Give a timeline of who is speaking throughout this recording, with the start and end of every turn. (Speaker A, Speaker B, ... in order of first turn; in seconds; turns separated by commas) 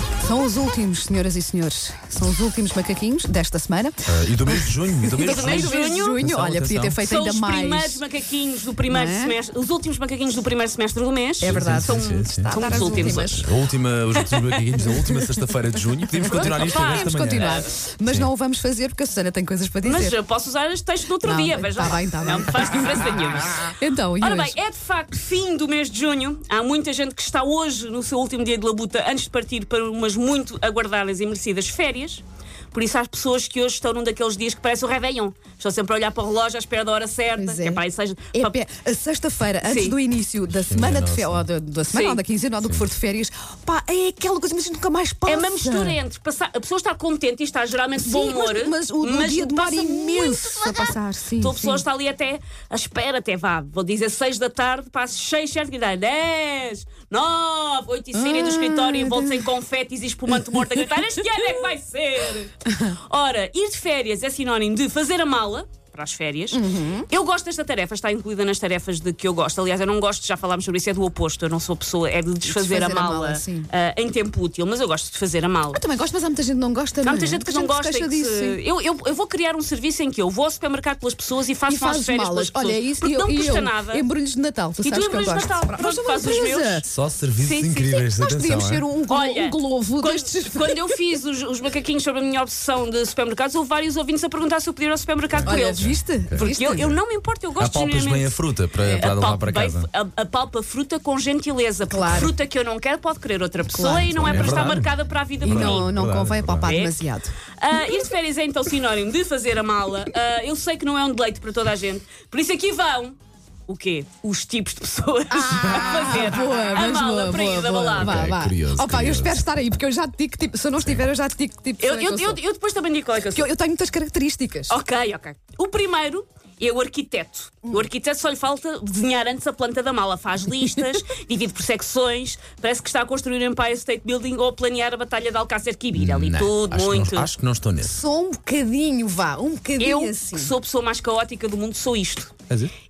Speaker A: 0.2-8.0, Speaker B: 4.1-7.0, Speaker C: 5.2-6.3, Speaker C: 7.0-13.5, Speaker A: 8.9-9.3, Speaker A: 11.4-13.5, Speaker B: 11.4-18.3, Speaker A: 14.7-20.2, Speaker C: 16.2-17.7, Speaker C: 19.8-38.6, Speaker A: 21.2-23.2, Speaker A: 23.7-24.6, Speaker A: 37.4-37.8, Speaker A: 38.3-46.0, Speaker C: 39.6-40.0, Speaker B: 40.5-41.4, Speaker C: 41.9-42.2, Speaker C: 45.3-75.8, Speaker A: 48.0-51.8, Speaker A: 58.1-59.5, Speaker A: 60.5-60.8, Speaker A: 66.5-67.1, Speaker A: 72.4-73.7, Speaker A: 75.7-78.6, Speaker C: 77.0-84.0, Speaker A: 81.7-86.9, Speaker C: 84.8-86.8, Speaker B: 86.9-88.9, Speaker C: 87.4-88.0, Speaker A: 88.1-91.0, Speaker C: 89.1-105.9, Speaker B: 95.3-96.5, Speaker A: 95.5-97.0, Speaker B: 97.6-99.9, Speaker A: 101.9-102.3, Speaker A: 103.7-104.7, Speaker B: 104.0-106.7, Speaker A: 105.4-108.1, Speaker C: 106.6-107.1, Speaker C: 107.6-118.2, Speaker A: 115.3-122.4, Speaker B: 118.0-119.4, Speaker C: 121.8-123.5, Speaker A: 123.3-124.7, Speaker C: 124.7-137.3, Speaker B: 135.9-138.0, Speaker A: 137.8-140.5, Speaker C: 139.8-142.3